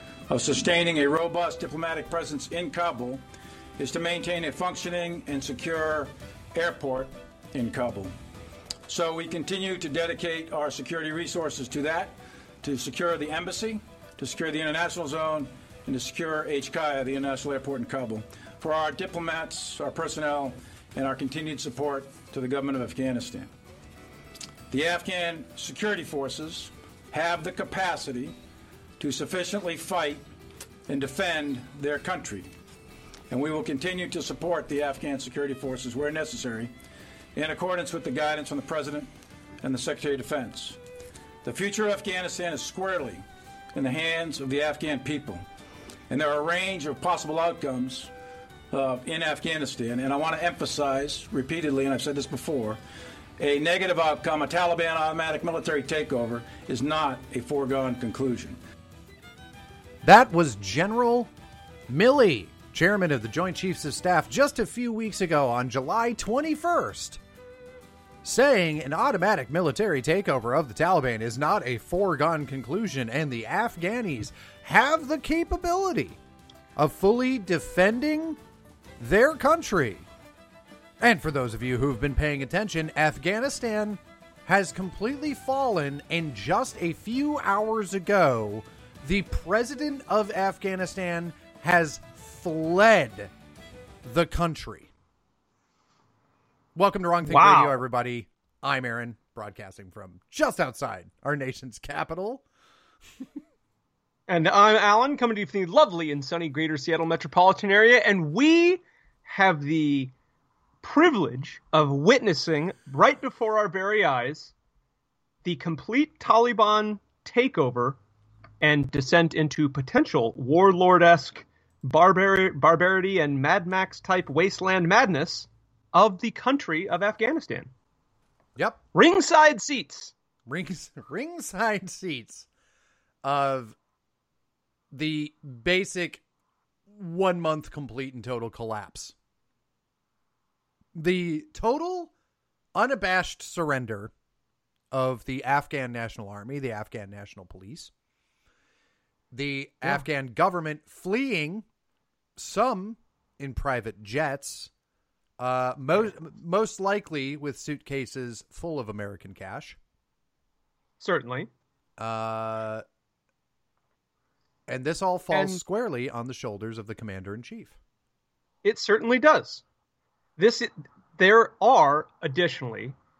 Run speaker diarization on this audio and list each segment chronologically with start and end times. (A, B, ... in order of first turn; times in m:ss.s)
0:00.3-0:03.2 A
0:03.8-0:08.1 A
0:08.9-0:23.5 A
0:24.7-0:28.3 A
0:29.0-0:30.2 A
0:30.9-0:32.5 A
0:33.3-0:36.7 A
0:37.3-0:39.1 A
0:39.6-0:40.8 A
0:41.4-0:45.4 A
0:46.1-0:48.1 A
0:48.7-0:52.8 A
0:53.4-0:58.6 A
1:00.0-1:01.3 B
1:01.9-1:07.2 B
1:08.2-1:16.2 B
1:16.8-1:18.4 B
1:19.0-1:20.1 B
1:21.0-1:33.3 B
1:34.0-1:34.9 B
1:36.7-1:42.4 B
1:37.2-1:37.8 C
1:44.3-1:50.1 C
1:50.8-1:54.5 C
1:55.4-1:58.0 C
1:58.6-2:07.7 C
2:08.6-2:08.8 B
2:08.9-2:10.1 C
2:10.5-2:12.5 B
2:13.2-2:13.8 B
2:14.9-2:16.2 B
2:16.9-2:19.1 B
2:20.9-2:22.1 B
2:22.7-2:24.1 B
2:24.9-2:27.9 B
2:29.3-2:31.6 B
2:32.4-2:34.7 B
2:35.4-2:39.8 B
2:41.0-2:41.5 C
2:42.0-2:42.8 B
2:44.7-2:47.8 B
2:45.3-2:45.6 C
2:48.6-2:49.6 C
2:50.4-2:53.0 C